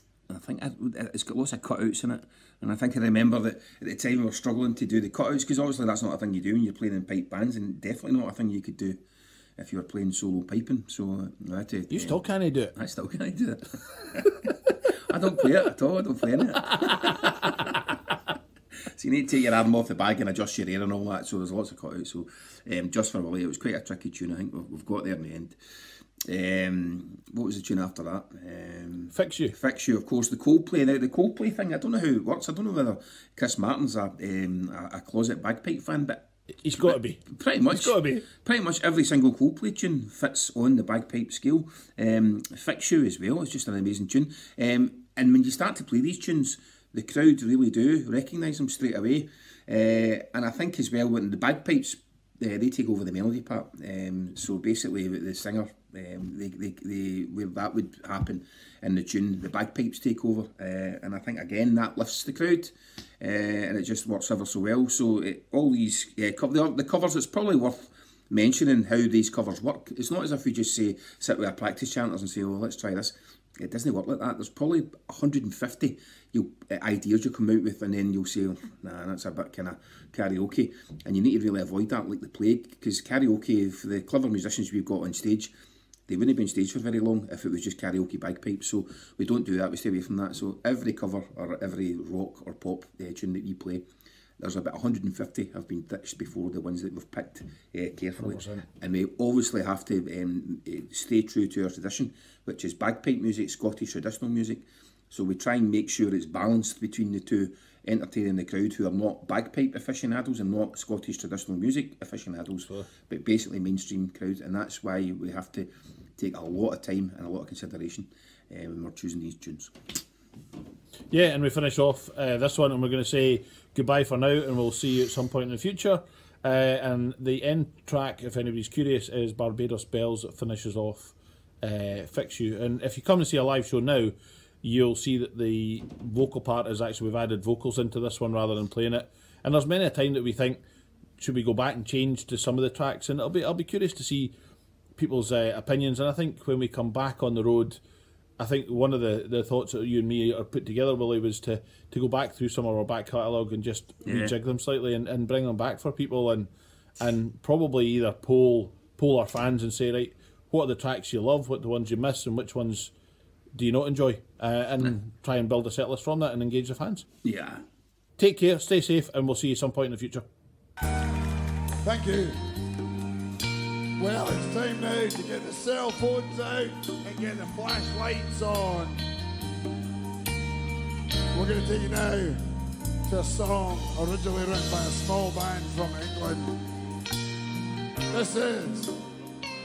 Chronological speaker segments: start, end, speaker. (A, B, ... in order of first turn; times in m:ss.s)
0:00.3-0:09.0 A
0:09.6-0:12.2 A
0:11.9-0:12.8 B
0:12.8-0:17.9 A
0:18.8-0:25.6 A
0:26.2-1:25.5 A
0:29.1-0:29.6 B
0:36.6-0:38.3 B
1:26.1-1:33.8 A
1:34.4-1:59.7 A
1:38.2-1:38.7 B
2:01.1-2:20.6 B
2:21.2-2:24.3 B
2:25.0-2:27.8 B
2:28.4-2:36.5 B
2:34.0-2:34.3 A
2:37.0-2:42.9 B
2:43.6-2:47.1 B
2:47.2-2:47.6 A
2:48.2-2:50.2 B
2:51.8-2:52.4 C
2:54.0-2:59.0 C
3:01.3-3:02.4 C
3:03.0-3:06.6 C
3:08.1-3:09.0 C